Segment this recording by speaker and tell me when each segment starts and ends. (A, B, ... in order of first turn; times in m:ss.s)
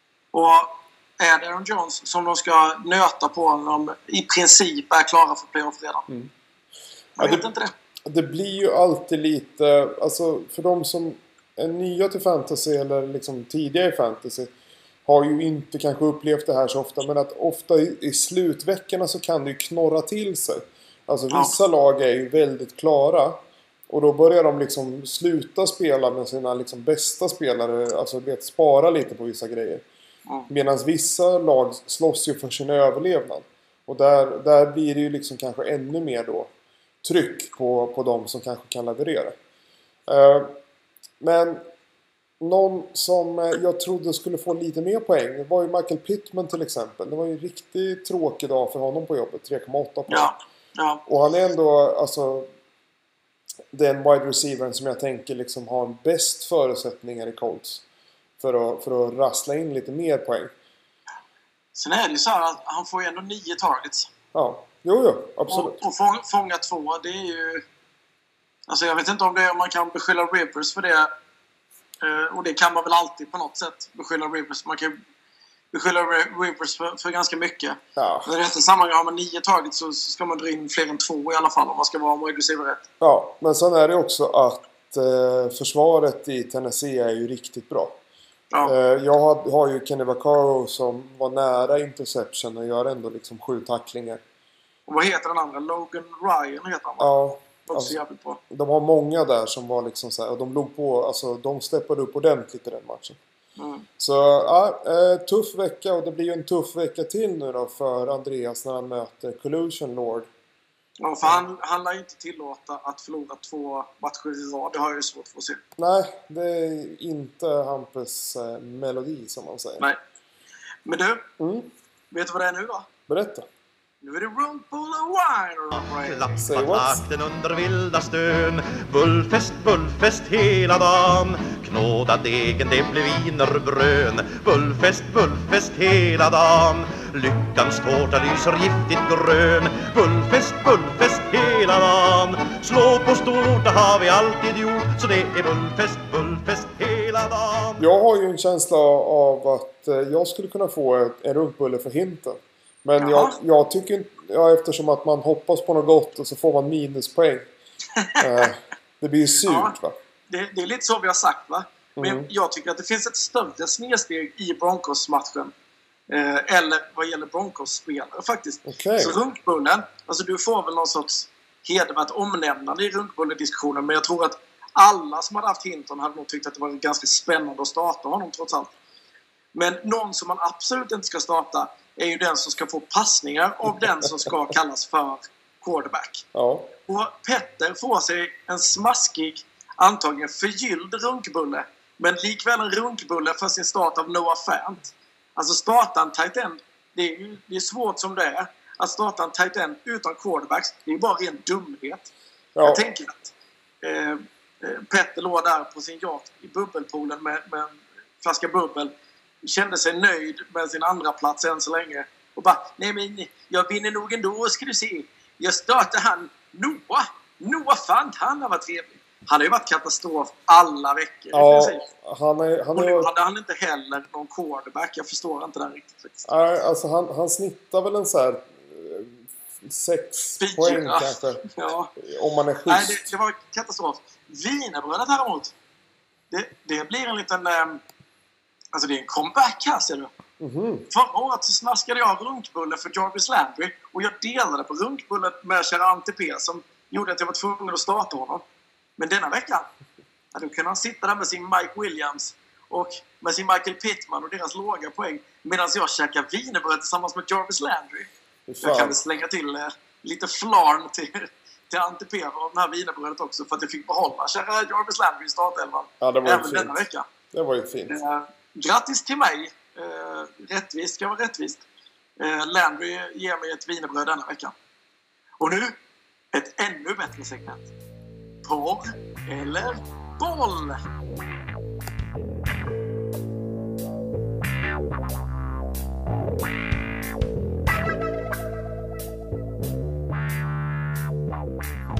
0:00.3-0:06.0 A
0:07.2-0:07.5 B
0:07.2-0:07.7 A
0:08.0-0:14.5 B
0:15.0-0:29.8 B
0:21.3-0:21.6 A
0:30.5-0:36.5 B
0:37.0-0:39.4 B
0:40.1-0:40.6 B
0:41.2-0:41.6 B
0:42.4-0:50.3 B
0:50.1-0:51.0 A
0:51.0-0:52.5 B
0:53.7-0:57.8 B
0:58.4-1:00.5 B
1:01.7-1:04.1 A
1:04.3-1:05.8 B
1:05.5-1:07.6 A
1:08.7-1:11.1 A
1:12.0-1:15.0 A
1:15.7-1:22.8 A
1:18.0-1:18.3 B
1:23.0-1:28.0 B
1:28.6-1:34.2 B
1:34.9-1:37.1 A
1:37.0-1:38.0 B
1:37.6-1:38.4 A
1:38.5-1:43.2 B
1:43.6-1:43.9 A
1:44.0-1:50.3 B
1:51.0-1:55.6 A
1:55.8-1:59.9 B
2:00.8-2:01.3 A
2:01.4-2:01.7 B
2:02.1-2:02.9 A
2:03.1-2:03.5 B
2:04.0-2:06.3 A
2:05.9-2:27.8 C
2:06.4-2:07.0 B
2:27.8-2:37.5 B
2:33.0-2:33.3 A
2:38.0-2:38.5 A
2:38.2-2:40.0 B
2:39.4-2:39.7 A
2:40.3-2:45.5 A
2:42.0-2:42.3 B
2:46.1-2:58.7 A
2:48.6-2:49.2 B
2:59.5-3:06.2 A
3:03.8-3:04.3 B
3:06.3-3:06.7 B
3:06.9-3:22.1 A
3:22.6-3:22.9 B
3:22.6-3:41.9 A
3:41.3-3:43.1 B
3:42.7-3:46.3 A
3:46.3-3:53.1 B
3:50.4-3:51.9 A
3:52.7-3:55.5 A
3:56.3-3:57.8 A
3:58.7-4:00.1 A
4:00.4-4:00.9 B
4:00.9-4:08.4 A
4:09.0-4:09.7 A
4:10.3-4:18.1 A
4:18.5-4:19.0 B
4:18.6-4:27.0 A
4:26.0-4:26.8 B
4:27.3-4:28.0 B
4:27.9-4:31.6 A
4:32.2-4:34.5 A
4:35.4-4:35.8 A
4:36.3-4:37.7 A
4:38.4-4:40.8 A